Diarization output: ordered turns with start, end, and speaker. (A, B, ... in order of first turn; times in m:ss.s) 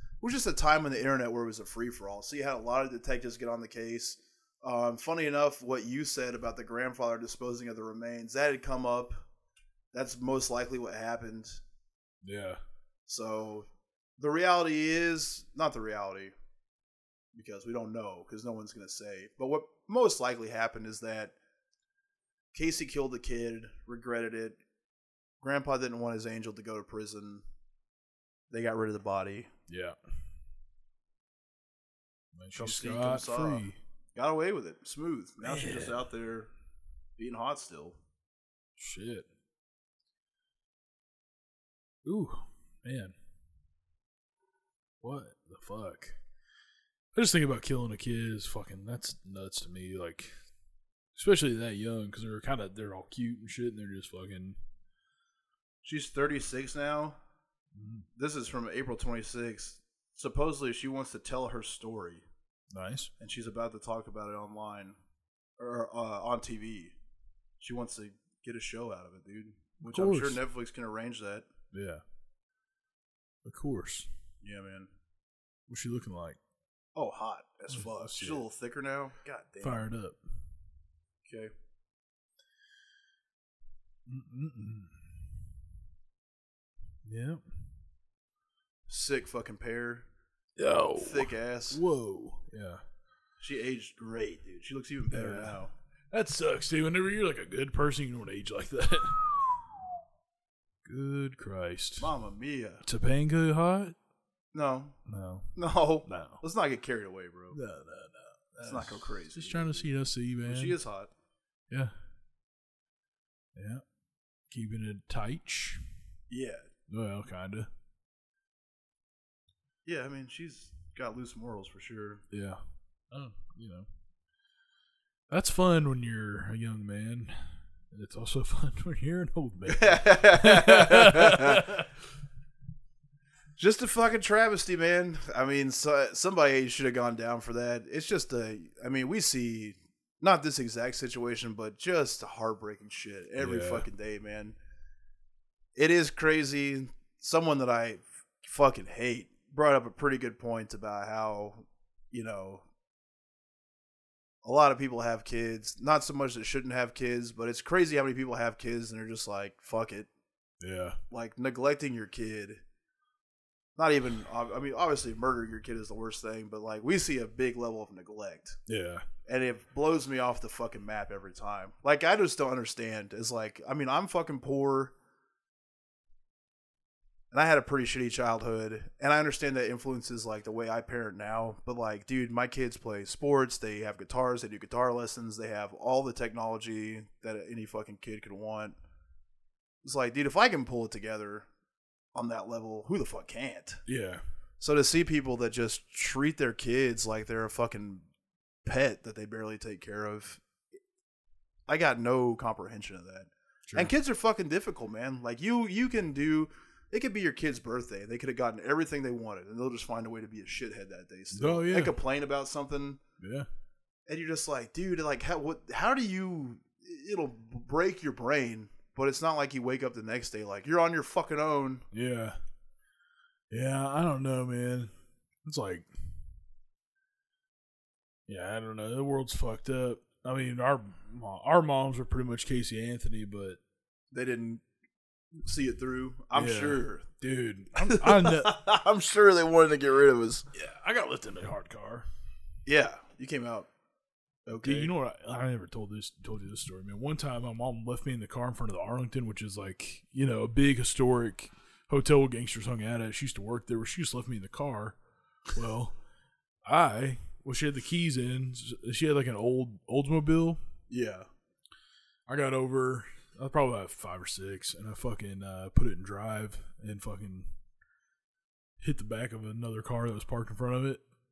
0:00.2-0:09.1 A
0:09.9-0:11.6 A
0:12.2-0:12.6 B
0:13.0-0:16.3 A
0:17.3-0:21.3 A
0:22.5-0:24.6 A
0:25.4-0:27.4 A
0:28.5-0:29.5 A
0:29.7-0:30.0 B
0:32.3-0:33.8 B
0:32.5-0:36.5 A
0:35.4-0:36.0 B
0:37.2-0:38.0 A
0:38.8-0:39.3 B
0:42.0-0:43.1 B
0:45.0-0:46.2 B
0:47.1-0:50.3 B
0:51.1-0:54.6 B
0:55.8-0:57.2 A
0:57.7-0:58.0 B
0:58.2-1:02.2 A
1:02.7-1:03.1 B
1:03.2-1:05.0 A
1:05.6-1:06.9 A
1:07.6-1:11.4 A
1:09.8-1:10.4 B
1:11.7-1:12.0 B
1:13.4-1:14.1 B
1:14.4-1:14.9 A
1:15.7-1:16.4 B
1:17.0-1:19.8 A
1:17.7-1:18.4 B
1:19.6-1:20.2 B
1:24.0-1:25.3 B
1:27.0-1:27.4 B
1:28.9-1:30.0 A
1:30.6-1:32.8 B
1:31.0-1:31.8 A
1:33.4-1:35.7 A
1:35.1-1:35.6 B
1:36.1-1:39.5 B
1:40.8-1:42.1 B
1:42.0-1:42.8 A
1:42.8-1:44.0 B
1:44.5-1:45.0 A
1:45.0-1:45.5 B
1:45.6-1:47.6 A
1:46.0-1:46.4 B
1:47.5-1:50.8 B
1:48.6-1:49.9 A
1:50.4-1:51.1 A
1:53.6-1:53.8 B
1:54.5-1:55.8 B
1:56.3-1:56.6 A
1:56.9-1:57.7 B
1:59.8-2:02.2 A
2:02.3-2:03.9 B
2:05.3-2:11.9 B
2:09.7-2:11.7 A
2:13.6-2:24.6 A
2:23.4-2:23.9 B
2:25.8-2:32.6 A
2:34.4-2:40.1 A
2:40.6-2:41.0 B
2:41.1-2:42.6 A
2:43.8-2:48.6 A
2:48.7-2:49.0 B
2:49.3-2:54.9 A
2:57.3-3:08.8 A
3:09.8-3:11.5 A
3:12.1-3:13.8 A
3:13.9-3:14.2 B
3:14.6-3:18.0 A
3:18.6-3:20.4 A
3:21.7-3:33.0 A
3:23.7-3:23.9 B
3:31.3-3:31.9 B
3:33.2-3:33.5 B
3:34.1-3:41.9 A
3:41.9-3:42.4 B
3:43.5-3:44.9 B
3:45.4-3:46.0 B
3:48.3-3:53.6 B
3:54.1-3:54.6 A
3:55.4-3:57.0 A
3:56.3-3:58.6 B
3:57.8-4:00.4 A
4:00.5-4:02.0 B
4:02.6-4:03.7 A
4:04.5-4:04.9 A
4:04.6-4:15.0 B
4:15.5-4:16.0 B
4:16.6-4:20.6 B
4:20.9-4:21.3 A
4:22.3-4:27.5 B
4:28.8-4:31.0 B